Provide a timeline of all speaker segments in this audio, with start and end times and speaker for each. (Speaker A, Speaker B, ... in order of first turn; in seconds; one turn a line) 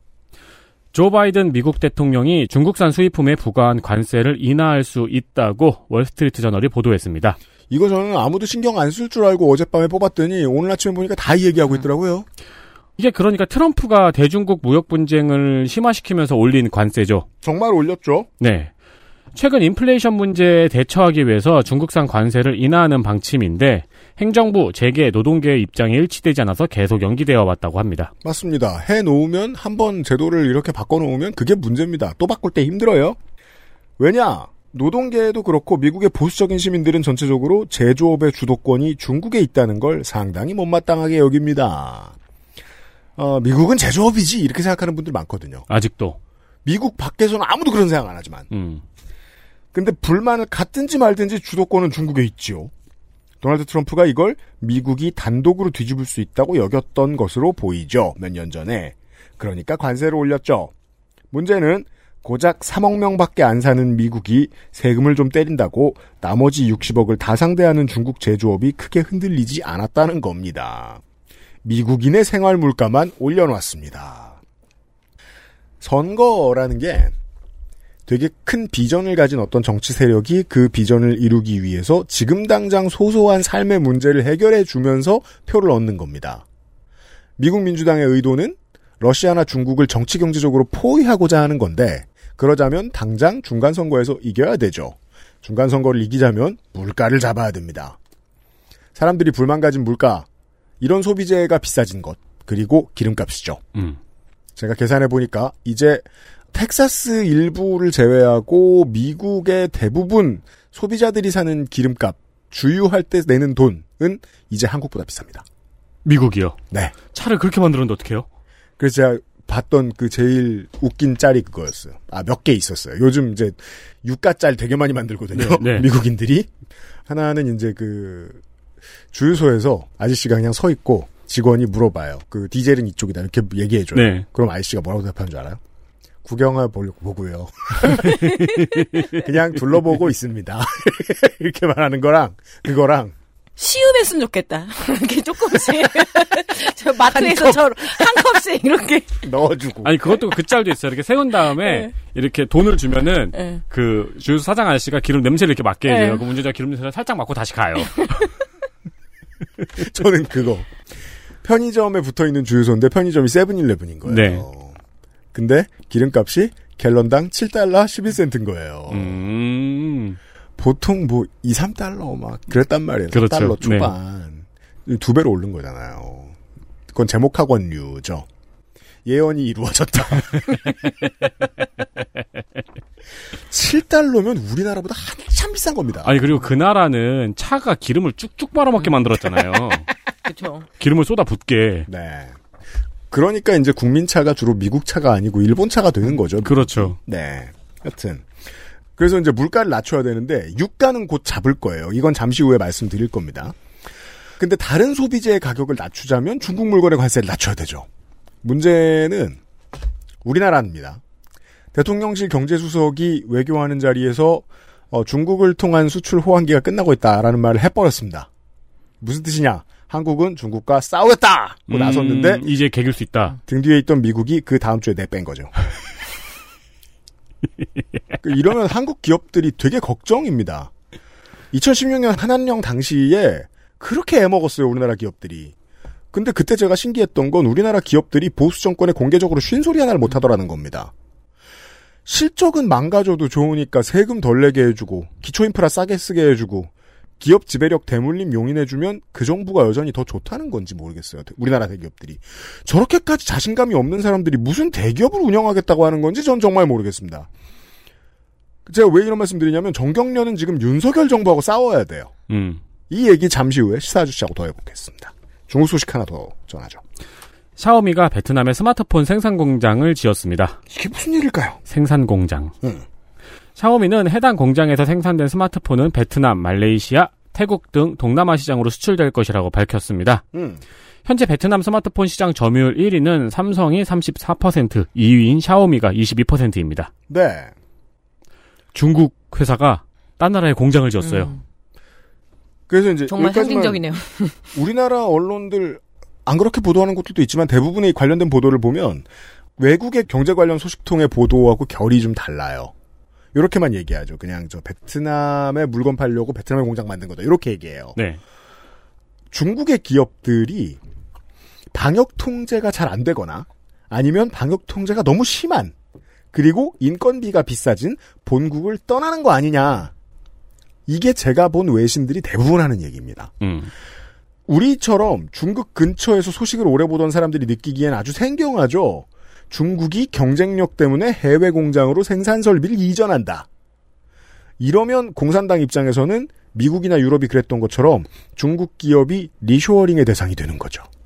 Speaker A: 0.9-7.4
Speaker B: 7.7-12.3
Speaker A: 13.0-17.2
Speaker B: 17.4-18.3
Speaker A: 18.4-18.7
Speaker A: 19.3-28.1
Speaker B: 28.2-33.2
Speaker B: 34.0-42.1
Speaker B: 43.2-45.6
Speaker A: 45.7-46.2
Speaker B: 46.6-48.5
Speaker A: 48.5-48.8
Speaker B: 49.7-52.7
Speaker B: 53.4-60.7
Speaker B: 61.3-71.0
Speaker B: 71.6-74.4
Speaker B: 75.8-77.1
Speaker B: 78.0-86.4
Speaker B: 87.4-98.0
Speaker B: 98.9-100.3
Speaker B: 100.8-103.6
Speaker B: 104.5-115.4
Speaker A: 116.0-116.6
Speaker A: 117.1-118.2
Speaker B: 118.8-126.5
Speaker A: 125.3-125.9
Speaker B: 127.1-128.4
Speaker B: 129.1-135.6
Speaker A: 133.9-134.2
Speaker B: 136.2-143.1
Speaker A: 138.5-139.1
Speaker C: 143.6-149.2
Speaker B: 147.1-147.8
Speaker B: 149.2-150.2
Speaker A: 149.8-158.2
Speaker C: 151.6-151.9
Speaker C: 155.9-156.2
Speaker B: 159.7-160.8
Speaker B: 161.4-164.8
Speaker A: 164.1-164.4
Speaker B: 165.3-169.2
Speaker A: 168.9-170.2
Speaker B: 170.6-176.3
Speaker A: 173.1-173.9
Speaker B: 176.9-178.2
Speaker B: 179.0-180.7
Speaker B: 183.5-186.2
Speaker A: 186.0-189.9
Speaker C: 190.2-190.7
Speaker A: 190.8-191.9
Speaker B: 191.9-192.3
Speaker B: 193.1-198.3
Speaker A: 196.4-197.0
Speaker B: 199.0-203.5
Speaker B: 204.4-207.9
Speaker B: 208.4-209.4
Speaker B: 210.2-211.0
Speaker B: 211.7-218.3
Speaker B: 219.0-222.5
Speaker A: 221.7-223.4
Speaker B: 223.4-225.5
Speaker B: 228.2-230.7
Speaker B: 231.5-235.5
Speaker B: 236.1-240.9
Speaker B: 242.1-257.3
Speaker B: 258.6-262.1
Speaker A: 262.3-262.6
Speaker B: 262.9-266.8
Speaker A: 267.6-270.6
Speaker B: 270.7-271.6
Speaker A: 271.7-272.5
Speaker A: 273.6-280.2
Speaker B: 280.3-280.6
Speaker A: 281.1-286.9
Speaker B: 287.1-287.5
Speaker A: 288.7-291.3
Speaker C: 291.0-291.4
Speaker B: 292.7-294.0
Speaker C: 293.1-294.3
Speaker B: 294.5-299.1
Speaker B: 299.6-302.7
Speaker B: 303.3-308.0
Speaker B: 309.3-310.8
Speaker B: 311.7-315.7
Speaker B: 316.3-319.9
Speaker B: 320.9-323.3
Speaker A: 323.4-323.7
Speaker B: 324.5-333.5
Speaker B: 334.6-340.9